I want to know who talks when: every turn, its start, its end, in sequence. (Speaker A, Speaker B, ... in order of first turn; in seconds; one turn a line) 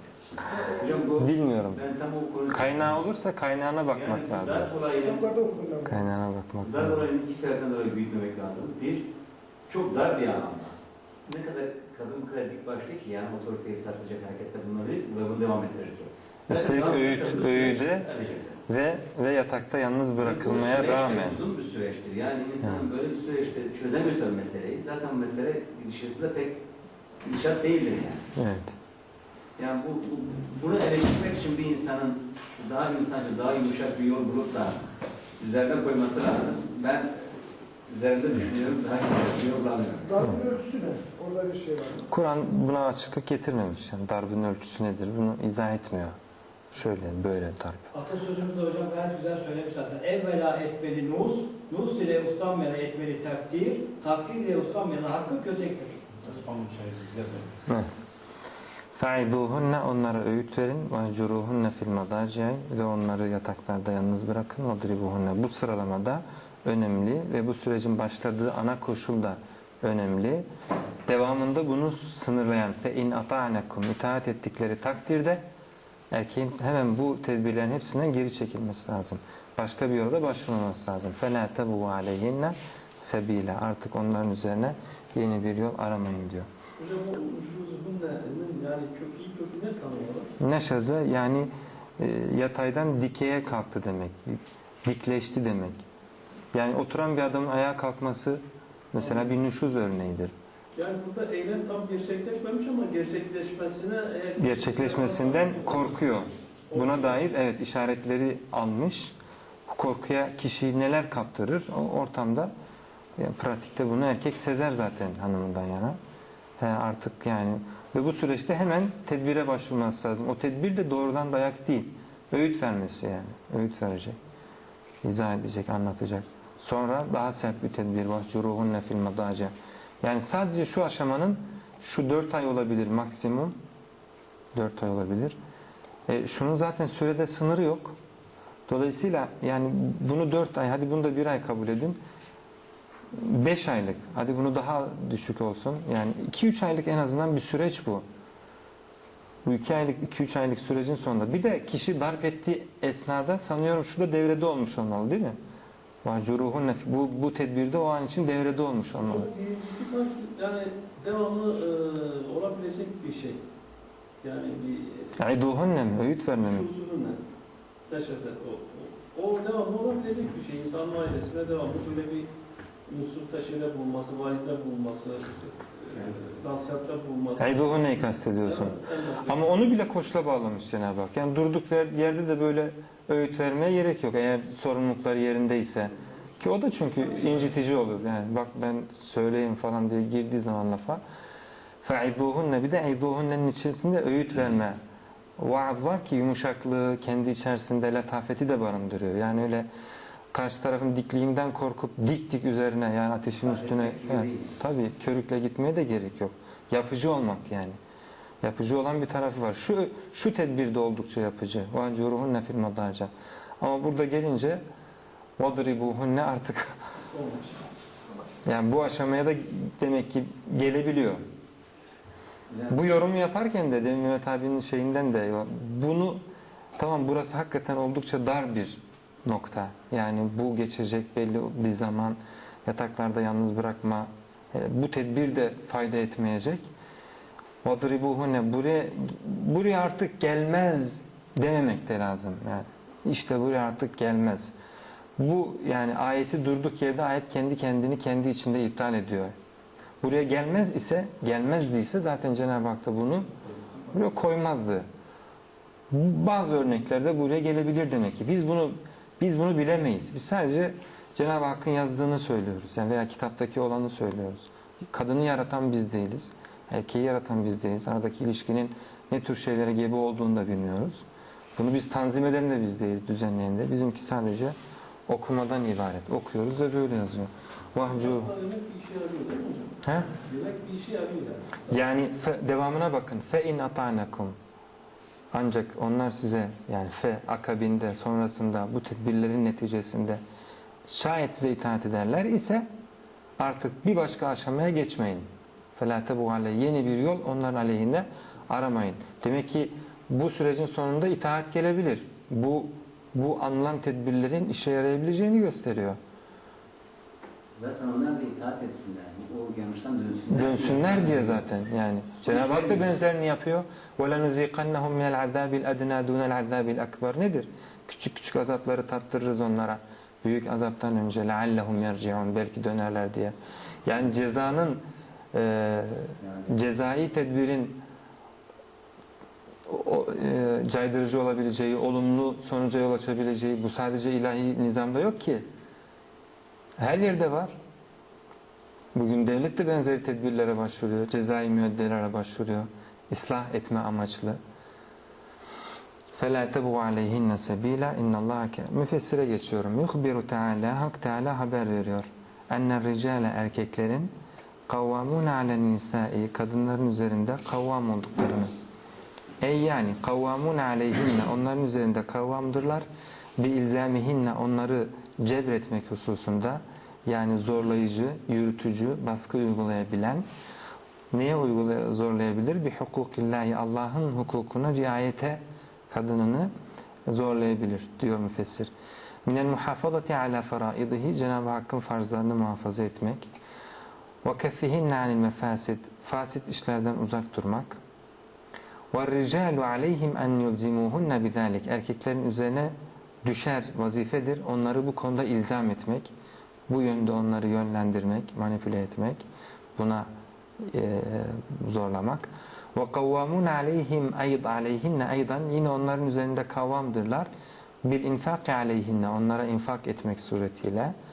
Speaker A: 0.5-1.2
Speaker B: 0.8-2.9
Speaker C: 1.2-1.8
Speaker C: 2.5-4.8
Speaker B: 3.9-5.2
Speaker A: 5.0-6.1
Speaker C: 5.9-7.0
Speaker B: 6.6-9.1
Speaker B: 9.7-18.6
Speaker C: 16.5-18.1
Speaker C: 18.7-21.4
Speaker B: 20.2-26.6
Speaker B: 27.2-28.2
Speaker C: 28.4-28.8
Speaker B: 29.6-34.8
Speaker B: 35.4-40.1
Speaker A: 40.0-42.0
Speaker C: 42.1-46.2
Speaker C: 46.7-47.9
Speaker D: 47.9-56.1
Speaker E: 56.2-57.5
Speaker C: 57.7-58.0
Speaker C: 59.0-70.5
Speaker C: 71.1-75.4
Speaker C: 76.1-86.5
Speaker E: 86.8-90.3
Speaker C: 90.4-95.8
Speaker C: 96.5-98.4
Speaker C: 98.9-100.3
Speaker E: 99.0-99.3
Speaker E: 100.8-107.2
Speaker C: 104.4-109.1
Speaker C: 109.7-112.5
Speaker C: 113.2-116.0
Speaker C: 116.6-124.2
Speaker C: 125.0-133.6
Speaker C: 134.5-135.4
Speaker C: 136.1-138.0
Speaker C: 138.7-142.0
Speaker C: 143.1-148.1
Speaker C: 149.4-155.4
Speaker C: 156.0-159.3
Speaker E: 159.0-163.4
Speaker E: 164.2-165.2
Speaker C: 165.2-166.7
Speaker E: 166.4-167.2
Speaker E: 167.9-172.3
Speaker E: 172.9-179.5
Speaker C: 177.4-191.0
Speaker E: 186.9-187.6
Speaker C: 191.8-194.8
Speaker C: 195.4-199.7
Speaker C: 200.3-207.8
Speaker B: 203.4-204.6
Speaker C: 208.4-214.6
Speaker C: 215.4-216.8
Speaker E: 217.0-217.9
Speaker C: 218.4-221.2
Speaker B: 222.5-222.8
Speaker C: 222.7-226.2
Speaker C: 226.8-236.7
Speaker C: 237.6-244.5
Speaker C: 245.2-249.3
Speaker C: 250.0-253.3
Speaker C: 253.8-254.9
Speaker C: 255.9-271.1
Speaker C: 271.6-274.6
Speaker C: 275.1-278.3
Speaker E: 277.9-281.8
Speaker C: 279.8-280.1
Speaker C: 281.7-284.4
Speaker C: 285.3-290.2
Speaker C: 290.9-292.7
Speaker C: 293.4-306.0
Speaker B: 307.6-311.4
Speaker C: 310.3-324.8
Speaker B: 312.2-312.9
Speaker C: 325.3-327.8
Speaker C: 329.7-335.5
Speaker C: 336.8-337.6
Speaker C: 338.9-344.4
Speaker C: 346.2-354.1
Speaker C: 354.7-358.5
Speaker C: 359.4-362.9
Speaker C: 363.4-370.2
Speaker C: 371.1-376.5
Speaker C: 377.1-378.7
Speaker C: 379.3-383.3
Speaker C: 384.2-387.8
Speaker C: 388.9-396.1
Speaker C: 396.7-399.2
Speaker C: 399.8-400.1
Speaker C: 400.6-407.3
Speaker C: 407.8-410.9